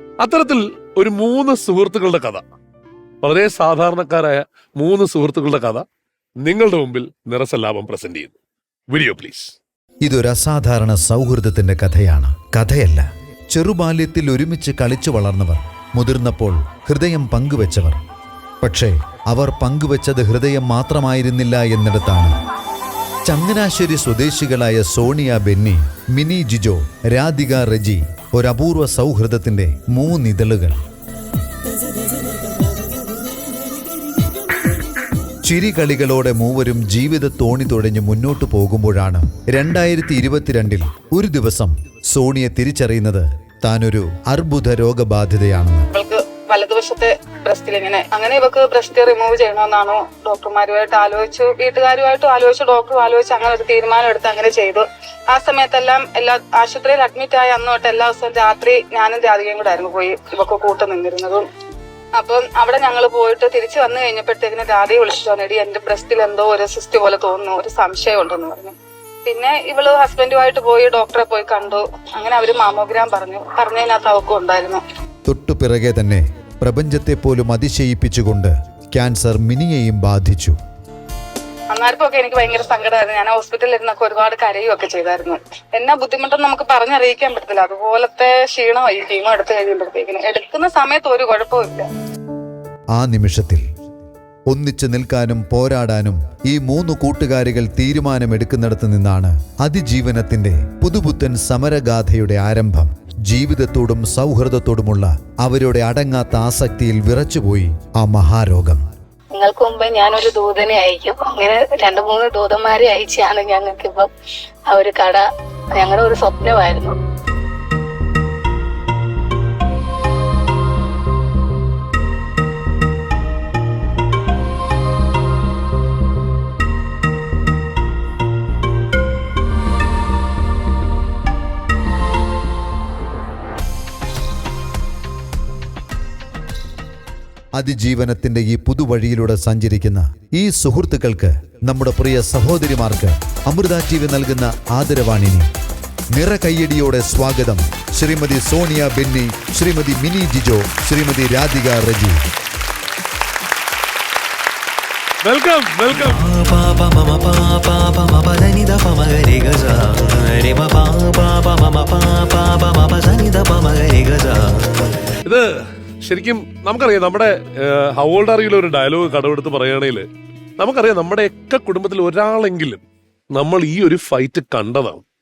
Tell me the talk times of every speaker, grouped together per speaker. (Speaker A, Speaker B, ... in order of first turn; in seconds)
Speaker A: 0.2-2.4, 3.2-5.8, 6.4-8.3, 8.9-9.6, 155.2-156.2, 165.2-165.5, 166.0-170.1, 170.6-172.8, 173.3-175.0
Speaker B: 10.0-18.0, 18.6-22.4, 23.2-30.8, 35.4-45.9, 75.3-80.6, 92.9-93.6, 94.5-108.8, 137.6-145.5, 146.1-152.2
Speaker C: 45.9-61.5, 62.2-74.8, 81.7-91.9
Speaker D: 109.3-114.1, 114.7-115.2, 115.8-117.0
Speaker E: 155.9-164.8